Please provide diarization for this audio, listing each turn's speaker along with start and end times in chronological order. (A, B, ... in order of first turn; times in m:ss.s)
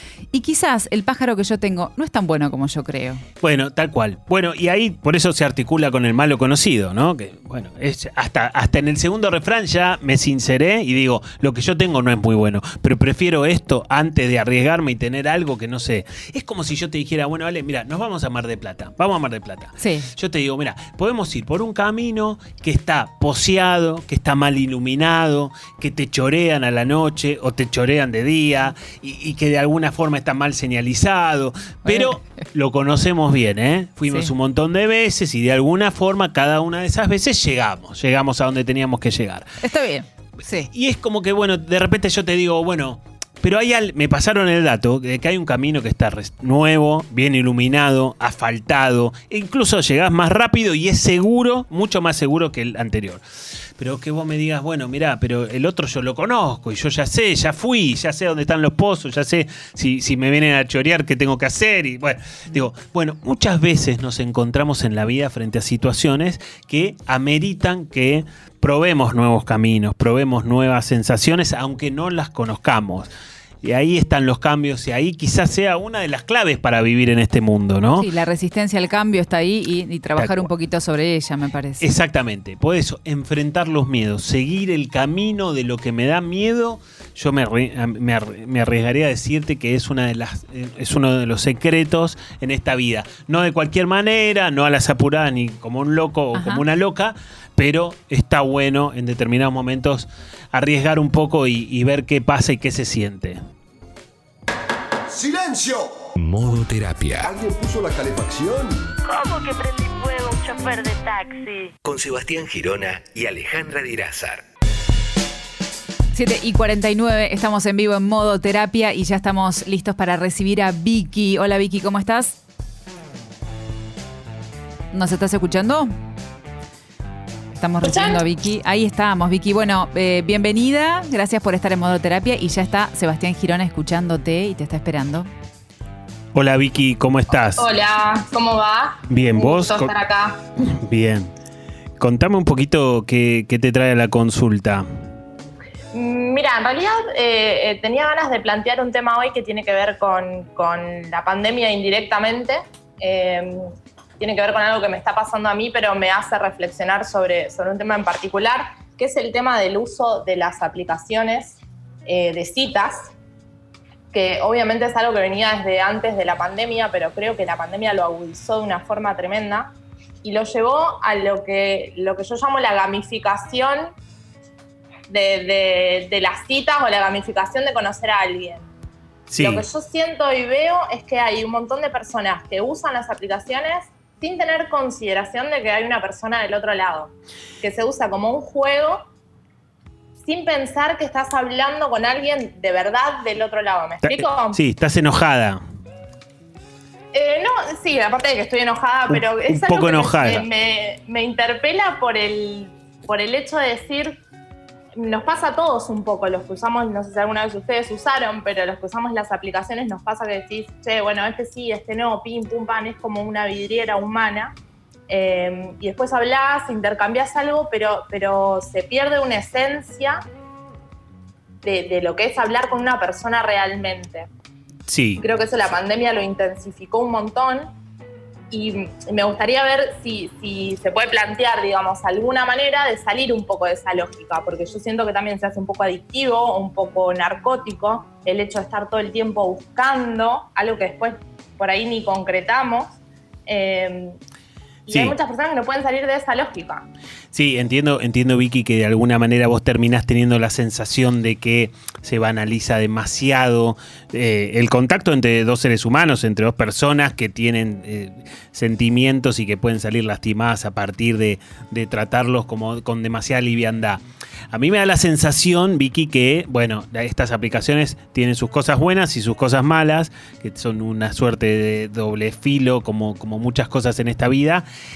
0:00.3-0:03.2 A
0:03.4-0:39.5 B
0:19.8-0:20.1 A
0:31.8-0:32.4 A
0:39.6-0:40.7 A
0:40.7-0:53.2 B
0:53.8-1:13.1 B
1:13.6-1:18.1 B
1:18.0-1:21.9 A
1:20.2-1:20.5 B
1:21.8-1:43.4 B
1:36.3-1:36.6 A
1:45.1-1:46.1 C
1:46.2-1:47.3 D
1:47.2-1:48.8 C
1:49.1-1:51.7 E
1:51.8-1:54.4 D
1:56.1-2:02.4 A
2:04.9-2:05.9 A
2:07.6-2:15.3 A
2:07.8-2:08.2 F
2:16.3-2:17.7 B
2:17.6-2:20.4 F
2:19.1-2:20.0 B
2:20.6-2:21.3 B
2:22.0-2:24.9 B
2:25.9-2:43.1 F
2:44.1-2:53.9 F
2:55.1-2:58.7 F
2:59.3-2:59.7 B
2:59.4-3:09.1 F
3:10.2-3:14.6 F
3:14.0-3:15.6 B
3:17.1-3:24.2 F
3:19.1-3:20.4 B
3:25.0-3:34.6 F
3:35.1-3:40.2 F
3:41.6-3:44.3 F
3:44.9-3:45.2 B
3:45.2-3:47.7 F
3:48.5-4:02.9 F
4:03.5-4:04.2 F
4:04.9-4:06.9 F
4:04.9-4:05.1 B
4:07.3-4:24.0 B
4:24.5-4:34.7 B